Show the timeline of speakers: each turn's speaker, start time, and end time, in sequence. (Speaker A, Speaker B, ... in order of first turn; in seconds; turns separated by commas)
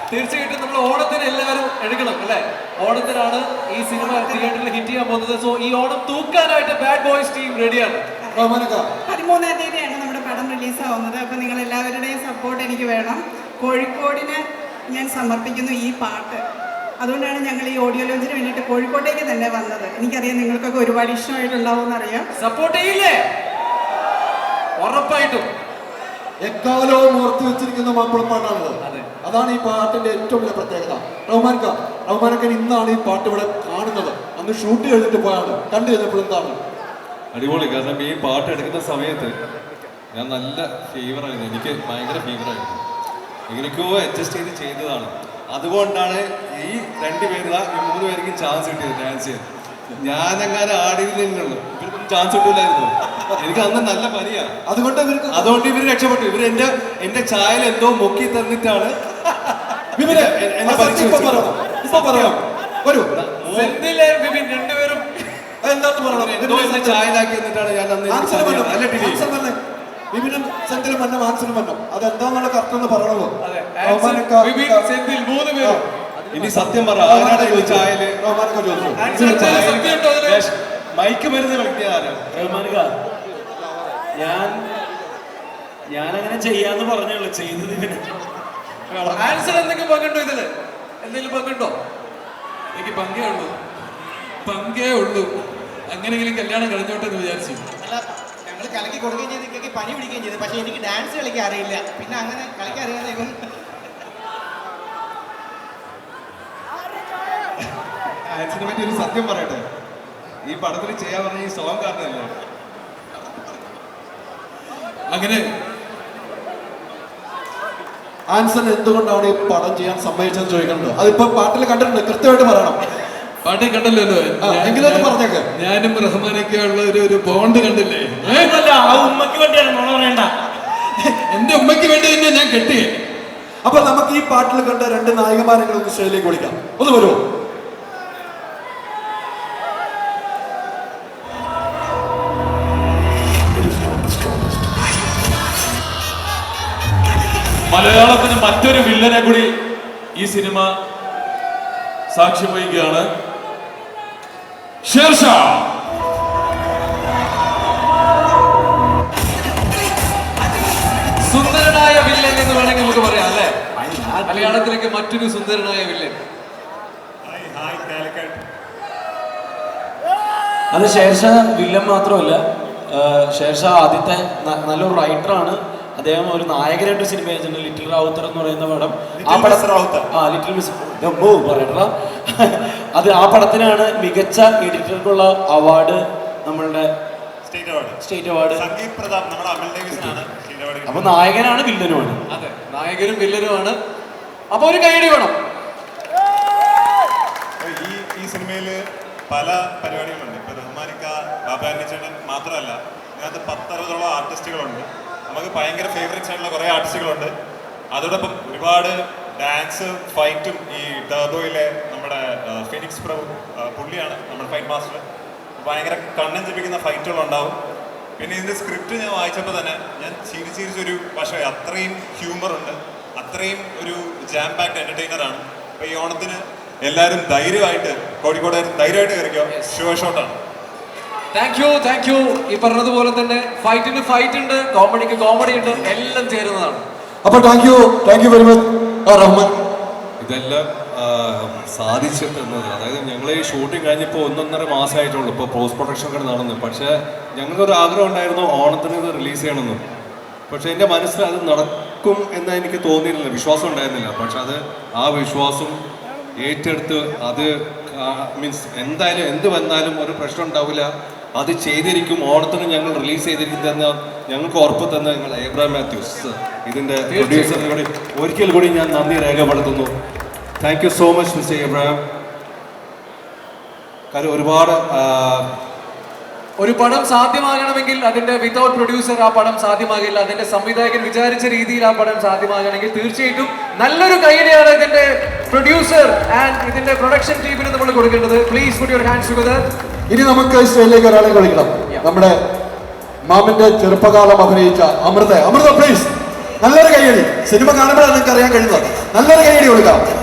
Speaker A: 0.1-8.0, Speaker B: 4.0-4.5, Speaker C: 8.3-8.9, Speaker B: 9.1-16.4, Speaker B: 17.0-22.3, Speaker A: 22.4-23.2, Speaker A: 24.8-25.5, Speaker C: 26.4-36.6, Speaker A: 28.8-29.1, Speaker D: 37.3-39.3, Speaker D: 40.1-42.8, Speaker D: 43.5-54.5, Speaker C: 54.6-55.5, Speaker D: 55.3-58.9, Speaker C: 60.0-63.1, Speaker D: 60.0-62.3, Speaker D: 63.1-63.8, Speaker A: 63.4-65.3, Speaker C: 65.6-67.0, Speaker D: 66.1-69.2, Speaker C: 68.1-69.6, Speaker C: 70.1-74.8, Speaker A: 73.4-75.8, Speaker D: 76.3-78.2, Speaker C: 76.9-79.2, Speaker D: 79.0-82.3, Speaker A: 79.0-80.4, Speaker E: 79.3-80.3, Speaker F: 82.3-82.9, Speaker F: 84.1-84.6, Speaker F: 85.9-88.0, Speaker A: 89.1-90.5, Speaker F: 89.2-89.6, Speaker A: 91.0-91.8, Speaker E: 92.7-93.5, Speaker E: 94.4-95.3, Speaker E: 95.9-97.6, Speaker G: 97.8-103.3, Speaker D: 108.3-109.6, Speaker D: 110.4-112.3, Speaker E: 115.1-115.4, Speaker C: 118.3-122.8, Speaker E: 123.4-128.8, Speaker C: 124.4-125.5, Speaker F: 128.2-130.3, Speaker E: 131.1-132.9, Speaker C: 133.6-137.2, Speaker H: 147.7-149.5, Speaker H: 150.2-150.7, Speaker H: 152.1-153.0, Speaker H: 154.8-155.6, Speaker A: 161.2-163.6, Speaker F: 163.8-164.6, Speaker A: 164.2-166.1, Speaker I: 167.3-168.4, Speaker F: 170.7-186.9, Speaker I: 179.1-180.1, Speaker I: 187.4-188.0, Speaker F: 188.0-188.7, Speaker I: 188.5-191.3, Speaker F: 189.9-190.2, Speaker F: 190.9-192.2, Speaker A: 192.3-193.8, Speaker A: 194.5-195.3, Speaker I: 197.6-198.8, Speaker I: 199.3-207.3, Speaker I: 207.9-215.0, Speaker I: 215.6-217.6, Speaker I: 218.2-230.3, Speaker A: 231.3-236.8, Speaker C: 237.2-239.5, Speaker D: 240.2-249.8, Speaker D: 250.5-255.8, Speaker D: 256.4-269.9, Speaker A: 267.1-267.6, Speaker D: 270.6-272.0, Speaker D: 274.1-275.5, Speaker A: 276.6-289.6, Speaker C: 290.1-292.4, Speaker C: 293.2-300.1